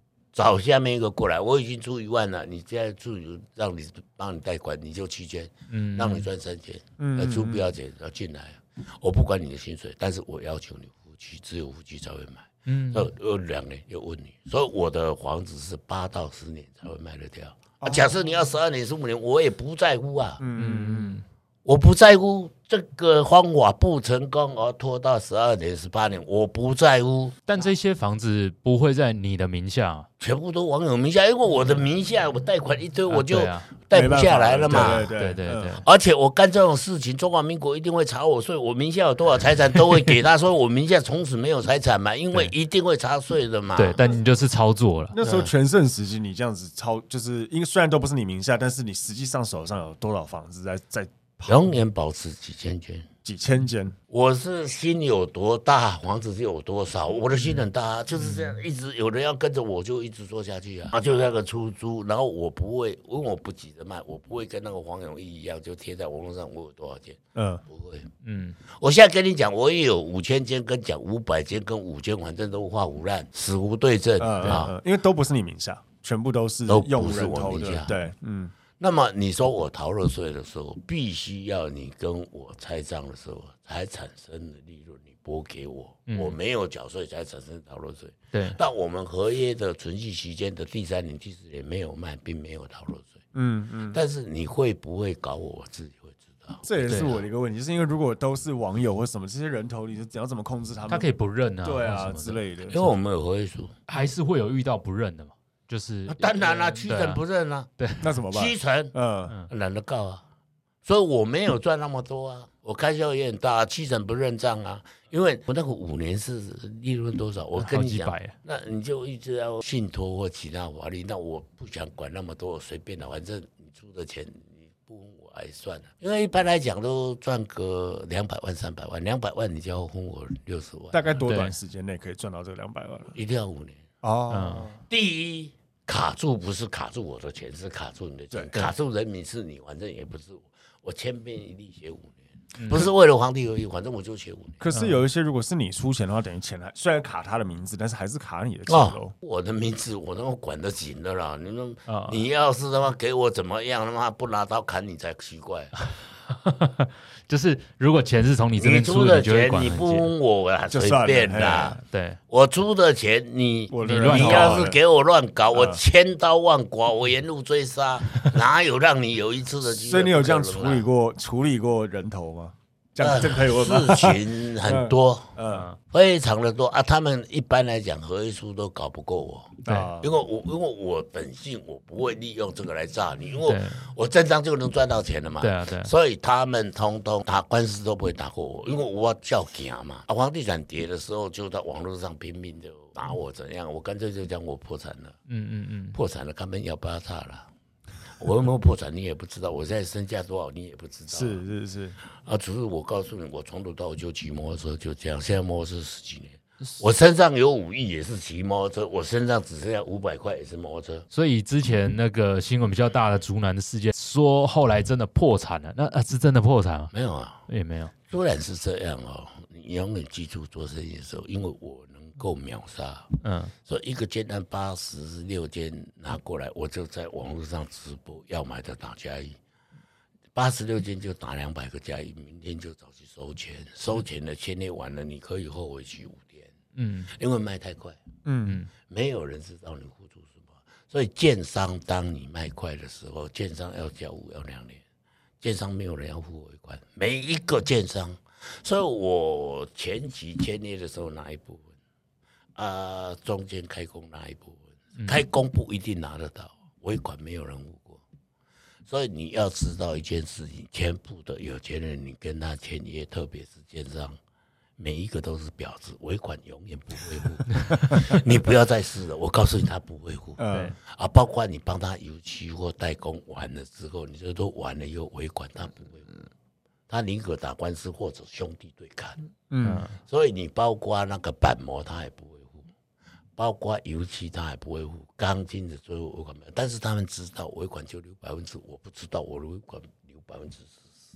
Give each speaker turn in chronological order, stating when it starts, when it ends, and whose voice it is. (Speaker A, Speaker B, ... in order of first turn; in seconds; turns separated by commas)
Speaker A: 0.3-20.4, Speaker B: 5.7-6.3, Speaker C: 7.0-7.7, Speaker B: 12.7-13.1, Speaker C: 17.8-18.1, Speaker C: 20.4-21.2, Speaker B: 20.6-21.2, Speaker A: 21.6-27.4, Speaker B: 27.5-30.1, Speaker A: 30.2-35.1, Speaker B: 33.1-33.7, Speaker C: 33.9-35.8, Speaker B: 34.7-35.8, Speaker A: 35.8-44.0, Speaker B: 43.8-45.2, Speaker C: 45.1-51.7, Speaker A: 45.2-45.5, Speaker A: 51.5-53.1, Speaker C: 53.2-54.0, Speaker A: 54.1-68.1, Speaker B: 58.1-58.6, Speaker C: 67.3-67.6, Speaker B: 68.2-68.6, Speaker A: 68.7-74.7, Speaker C: 74.2-78.5, Speaker A: 76.7-78.0, Speaker A: 78.8-93.2, Speaker B: 86.1-86.4, Speaker B: 88.3-88.6, Speaker C: 93.3-94.0, Speaker A: 93.9-96.6, Speaker C: 96.6-101.1, Speaker B: 96.9-97.2, Speaker B: 100.9-102.9, Speaker C: 101.6-102.8, Speaker A: 102.7-103.8, Speaker B: 103.9-107.2, Speaker A: 106.1-107.7, Speaker B: 107.8-108.1, Speaker C: 108.0-109.3, Speaker A: 108.3-108.9, Speaker A: 109.5-110.2, Speaker A: 110.8-131.2, Speaker B: 117.6-118.3, Speaker C: 130.9-133.1, Speaker B: 131.2-131.6, Speaker A: 133.1-133.9, Speaker C: 134.0-134.8, Speaker B: 134.3-134.7, Speaker A: 134.9-144.6, Speaker B: 142.6-142.9, Speaker C: 144.6-149.1, Speaker B: 144.7-145.0, Speaker A: 148.7-155.8, Speaker B: 151.9-152.2, Speaker B: 155.8-160.1, Speaker A: 158.6-170.9, Speaker C: 160.7-161.8, Speaker B: 161.8-162.2, Speaker C: 163.7-164.8, Speaker B: 163.8-164.7, Speaker C: 165.5-165.8, Speaker C: 169.7-175.7, Speaker A: 173.0-175.3, Speaker B: 175.5-175.8, Speaker A: 175.9-195.2, Speaker C: 179.6-180.1, Speaker B: 179.7-179.9, Speaker B: 183.4-183.9, Speaker B: 185.4-185.9, Speaker B: 195.3-196.0, Speaker A: 195.9-197.5, Speaker A: 198.2-201.4, Speaker C: 201.1-202.0, Speaker A: 202.2-211.1, Speaker B: 211.1-216.9, Speaker A: 216.9-217.4, Speaker B: 217.5-217.9, Speaker A: 218.1-229.4, Speaker B: 223.2-223.5, Speaker A: 230.3-236.5, Speaker B: 236.8-237.1, Speaker A: 237.1-238.0, Speaker C: 238.2-238.6, Speaker B: 238.4-238.7, Speaker A: 238.8-244.8, Speaker A: 245.4-251.7, Speaker A: 252.6-258.0, Speaker B: 255.0-255.2, Speaker A: 258.9-264.2, Speaker A: 264.8-276.2, Speaker C: 270.4-270.8, Speaker A: 276.9-279.2, Speaker C: 279.5-279.9, Speaker B: 279.6-280.0, Speaker A: 280.1-282.7, Speaker A: 283.4-291.0